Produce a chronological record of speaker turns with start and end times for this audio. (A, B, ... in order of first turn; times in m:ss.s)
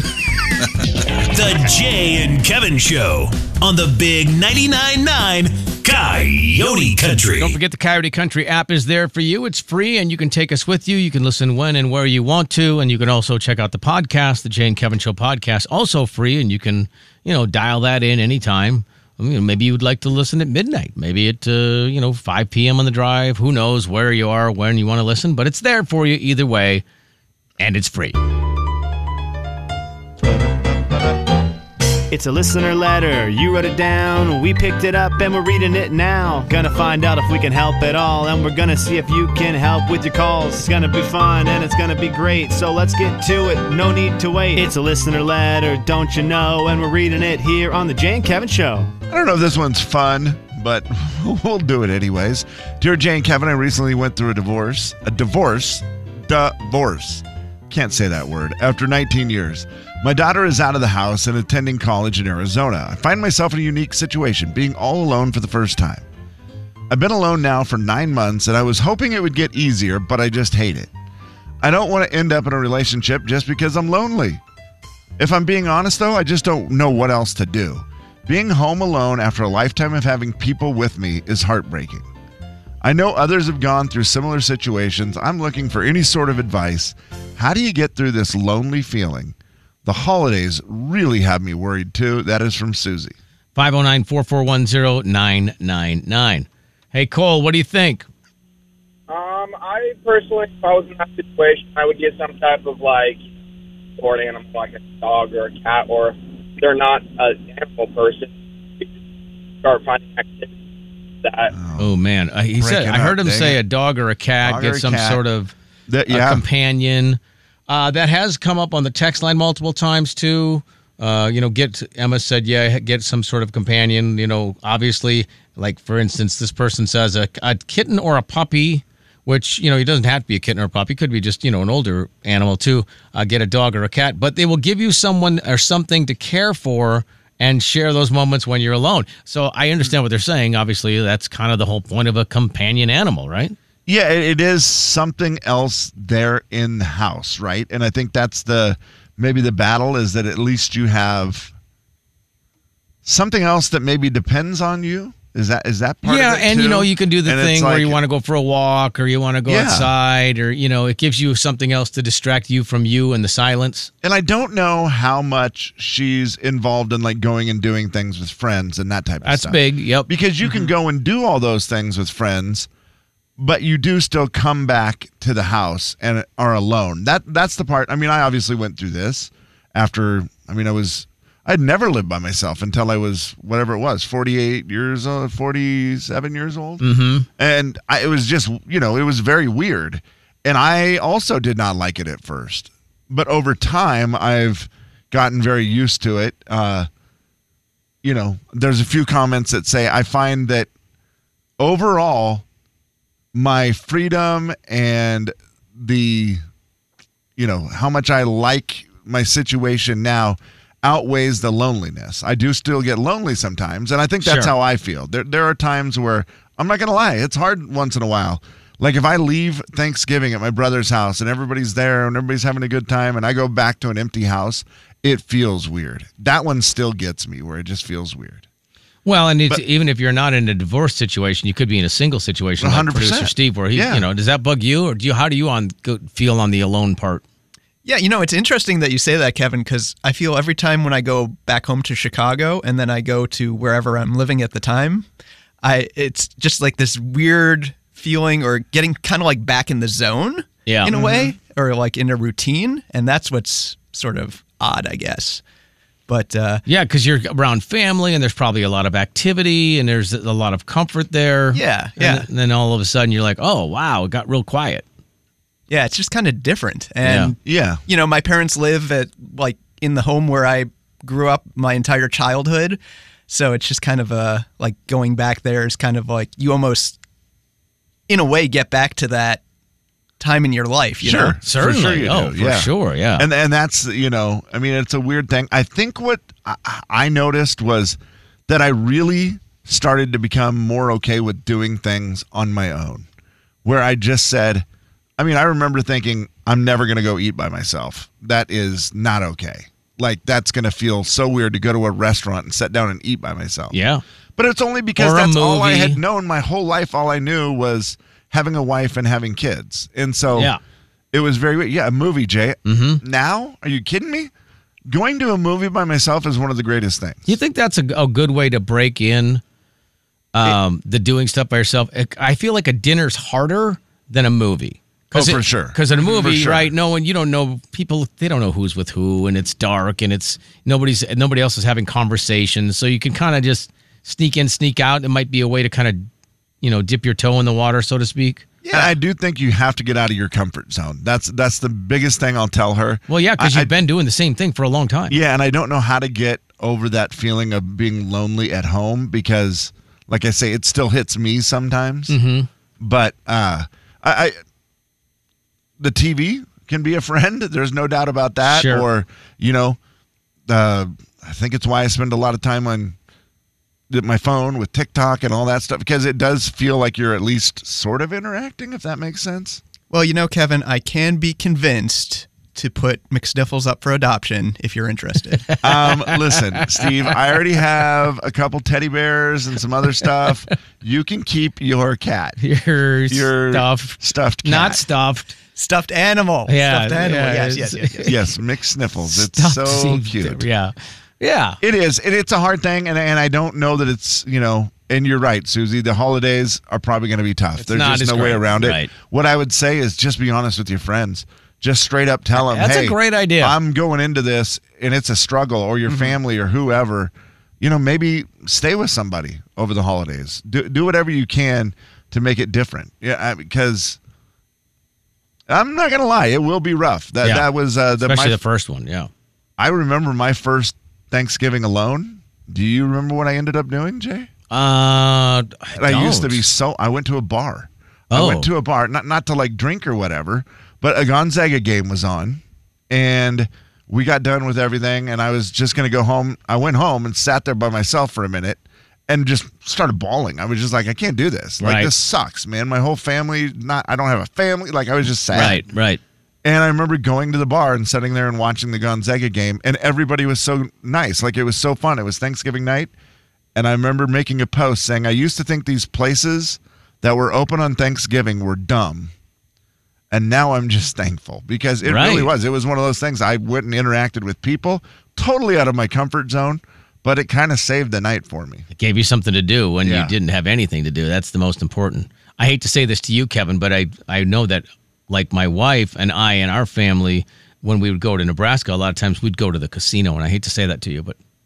0:01.2-0:07.6 A
0:07.2-0:26.8 B
0:27.6-0:28.2 B
0:32.1-0:48.9 C
0:49.1-1:06.0 D
1:06.9-1:10.9 D
1:11.6-1:14.4 D
1:15.2-1:22.1 D
1:22.8-1:33.2 D
1:33.6-1:38.1 B
1:39.1-1:43.2 E
1:44.0-1:48.9 E
1:49.6-1:50.6 E
1:51.2-1:51.5 E
1:51.5-1:52.0 D
1:51.8-1:55.5 B
1:52.6-1:53.6 D
1:54.4-1:55.2 D
1:55.9-1:56.4 D
1:56.1-2:23.6 B
2:23.8-2:31.5 D
2:33.0-2:38.0 D
2:36.0-2:43.9 B
2:39.4-2:39.9 D
2:44.0-2:52.7 D
2:49.2-2:50.1 B
2:53.4-3:06.8 D
3:06.8-3:07.3 B
3:07.4-3:16.9 D
3:18.0-3:20.7 D
3:21.6-3:22.4 D
3:23.3-3:26.4 D
3:27.4-3:48.4 D
3:34.2-3:34.5 B
3:49.0-3:57.2 B
3:52.6-3:54.0 D
3:57.8-4:05.1 F
4:05.6-4:15.4 F
4:10.6-4:10.9 B
4:10.9-4:11.3 D
4:16.1-4:16.6 F
4:16.6-4:24.8 B
4:21.5-4:22.2 F
4:25.7-4:37.0 F
4:27.0-4:27.3 B
4:27.4-4:27.8 D
4:38.1-4:39.4 F
4:40.2-4:41.4 F
4:41.0-4:48.0 D
4:41.4-4:43.3 B
4:48.5-4:53.1 D
4:53.6-4:54.6 D
4:55.2-5:03.7 D
5:03.7-5:04.0 B
5:04.4-5:10.5 D
5:05.0-5:06.0 B
5:10.3-5:10.6 B
5:11.1-5:14.3 D
5:12.6-5:13.0 B
5:14.9-5:17.3 D
5:17.3-5:19.4 B
5:20.3-5:36.1 B
5:25.1-5:26.7 D
5:36.6-5:38.4 B
5:38.6-5:38.9 F
5:38.7-5:43.7 D
5:43.1-5:45.2 B
5:45.1-5:52.1 D
5:52.1-5:52.5 B
5:52.8-5:54.4 D
5:55.8-5:59.8 D
5:58.4-5:58.9 B
6:00.5-6:03.0 D
6:03.9-6:09.6 D
6:09.9-6:15.5 F
6:15.5-6:17.2 B
6:15.6-6:22.4 D
6:22.4-6:25.3 B
6:23.1-6:24.8 D
6:25.6-6:28.2 F
6:26.5-6:28.2 B
6:28.0-6:30.5 D
6:29.1-6:31.6 B
6:31.6-6:54.0 D
6:37.6-6:38.9 B
6:42.4-6:43.6 B
6:45.9-6:46.1 F
6:55.5-6:58.4 D
6:57.2-6:59.1 B
6:59.6-7:04.3 D
7:04.5-7:06.4 B
7:05.8-7:25.7 D
7:08.1-7:08.5 B
7:21.6-7:21.9 B
7:25.3-7:26.0 B
7:26.4-7:32.9 D
7:33.5-7:39.1 D
7:40.1-7:48.6 D
7:41.8-7:42.3 B
7:48.7-8:01.2 B
7:49.8-7:50.1 D